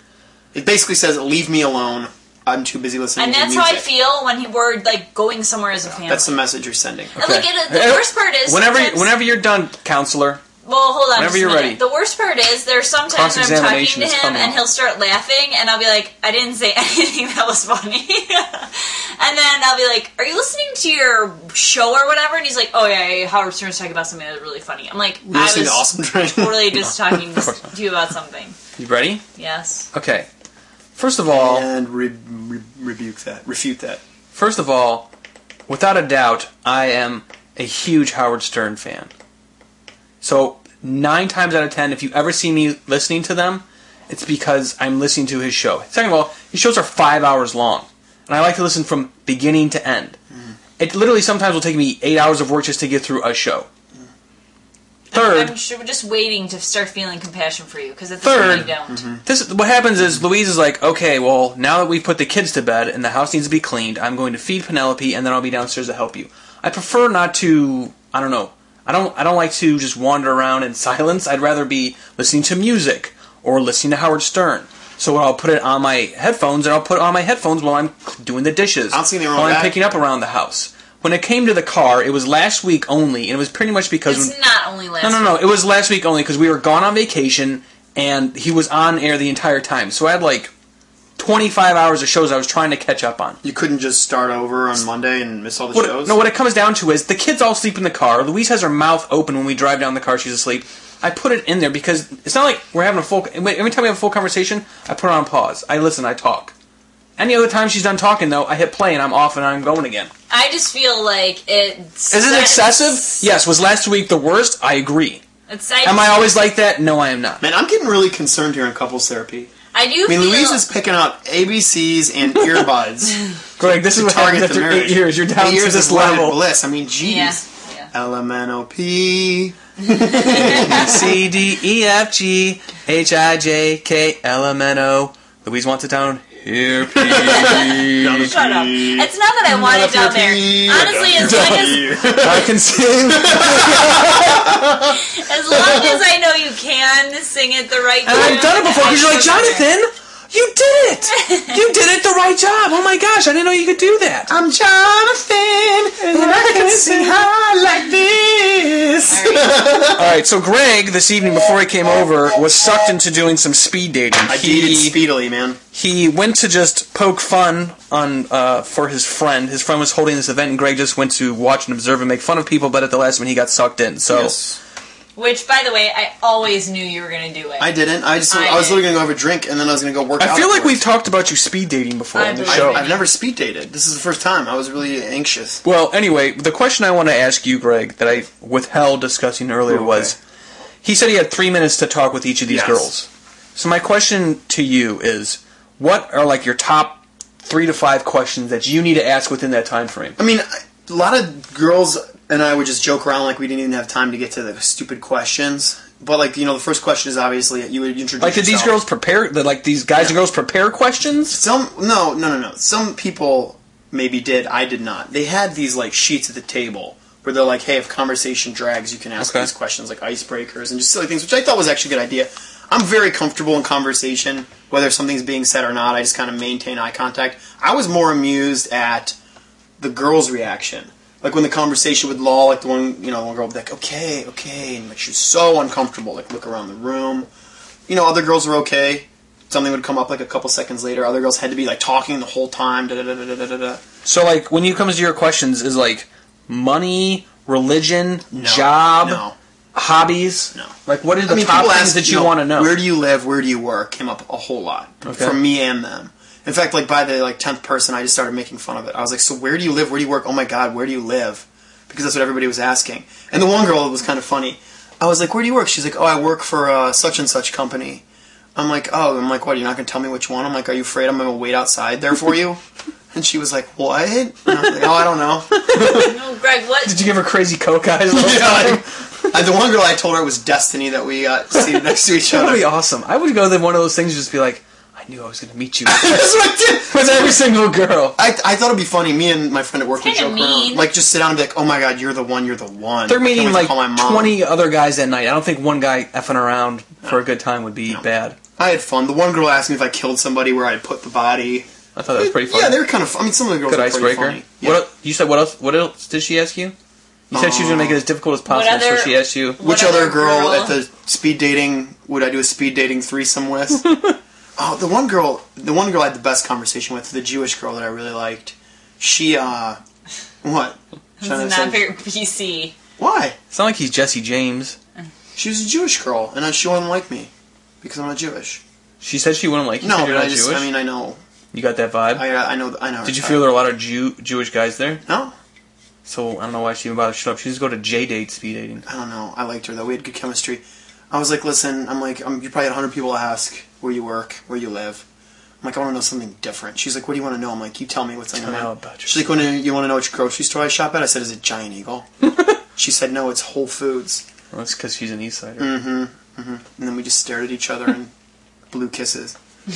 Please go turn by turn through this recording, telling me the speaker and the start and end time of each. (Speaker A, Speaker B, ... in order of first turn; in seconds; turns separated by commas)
Speaker A: 0.5-3.9, Speaker B: 3.2-6.4, Speaker A: 6.0-7.1, Speaker B: 7.2-9.1, Speaker C: 7.2-10.4, Speaker B: 10.6-28.6, Speaker C: 11.1-11.8, Speaker C: 13.1-14.6, Speaker A: 25.2-26.9, Speaker C: 27.3-27.7, Speaker C: 28.8-29.2, Speaker B: 29.4-29.9, Speaker C: 29.9-30.3, Speaker C: 30.9-31.6, Speaker A: 31.3-34.0, Speaker C: 34.3-35.1, Speaker C: 35.7-39.1, Speaker C: 40.2-50.2, Speaker C: 50.8-53.7, Speaker C: 55.1-55.6, Speaker B: 55.1-59.0, Speaker C: 58.2-84.3, Speaker A: 58.4-59.2, Speaker A: 78.9-79.8, Speaker B: 84.0-85.3, Speaker C: 85.0-90.5, Speaker C: 91.2-93.4, Speaker A: 93.4-96.2, Speaker C: 95.7-106.5, Speaker C: 107.2-110.1, Speaker B: 110.3-113.2, Speaker C: 112.1-115.2, Speaker B: 115.5-116.3, Speaker C: 115.8-117.4, Speaker A: 117.4-119.5, Speaker B: 119.7-120.6, Speaker A: 120.0-127.4, Speaker C: 122.4-122.7, Speaker C: 123.6-126.4, Speaker B: 127.0-127.9, Speaker A: 127.9-131.1, Speaker B: 129.9-131.0, Speaker C: 130.3-138.3, Speaker A: 137.0-145.0, Speaker B: 137.2-142.0, Speaker C: 141.1-144.6, Speaker B: 144.9-149.7, Speaker C: 148.0-154.3, Speaker B: 151.2-151.6, Speaker A: 154.3-160.1, Speaker C: 156.0-157.3, Speaker B: 159.1-159.8, Speaker C: 159.9-165.0, Speaker A: 164.3-165.6, Speaker C: 165.7-174.4, Speaker A: 174.1-174.6, Speaker B: 175.2-177.7, Speaker A: 177.6-180.8, Speaker B: 178.3-178.8, Speaker C: 180.2-182.9, Speaker B: 182.1-183.0, Speaker A: 182.4-185.6, Speaker C: 185.6-190.2, Speaker A: 189.7-190.2, Speaker C: 190.8-200.2, Speaker A: 192.5-192.9, Speaker A: 200.2-208.8, Speaker C: 208.2-211.4, Speaker A: 211.3-229.2, Speaker C: 219.2-219.5, Speaker A: 229.8-237.3, Speaker A: 237.9-243.8, Speaker C: 244.0-249.2, Speaker A: 248.3-249.3, Speaker C: 249.7-252.8, Speaker A: 250.5-268.0, Speaker C: 255.1-255.4, Speaker A: 268.6-272.6, Speaker A: 273.1-276.1, Speaker C: 275.5-276.1, Speaker B: 275.9-277.0, Speaker C: 276.8-279.3, Speaker A: 278.1-282.6, Speaker C: 281.5-288.1, Speaker A: 285.9-287.4, Speaker A: 288.1-294.4, Speaker B: 290.0-290.9, Speaker C: 293.1-298.4, Speaker A: 298.6-304.8, Speaker C: 301.9-302.8, Speaker C: 303.7-306.7, Speaker A: 307.3-308.0, Speaker C: 307.3-309.6, Speaker B: 308.5-310.8, Speaker A: 309.6-313.9, Speaker A: 314.6-319.8, Speaker A: 320.4-321.9, Speaker B: 321.2-322.8, Speaker A: 323.0-323.4, Speaker C: 323.5-324.8, Speaker A: 325.4-327.3, Speaker A: 327.8-328.6, Speaker C: 329.0-330.7, Speaker A: 329.8-331.2, Speaker C: 331.5-332.2, Speaker A: 332.1-333.5, Speaker C: 333.0-335.0, Speaker A: 335.1-335.3, Speaker C: 336.0-338.8, Speaker A: 338.8-345.0, Speaker A: 345.6-352.1, Speaker C: 348.4-349.4, Speaker A: 352.7-354.2, Speaker C: 354.5-355.7, Speaker A: 355.6-358.1, Speaker A: 358.7-359.4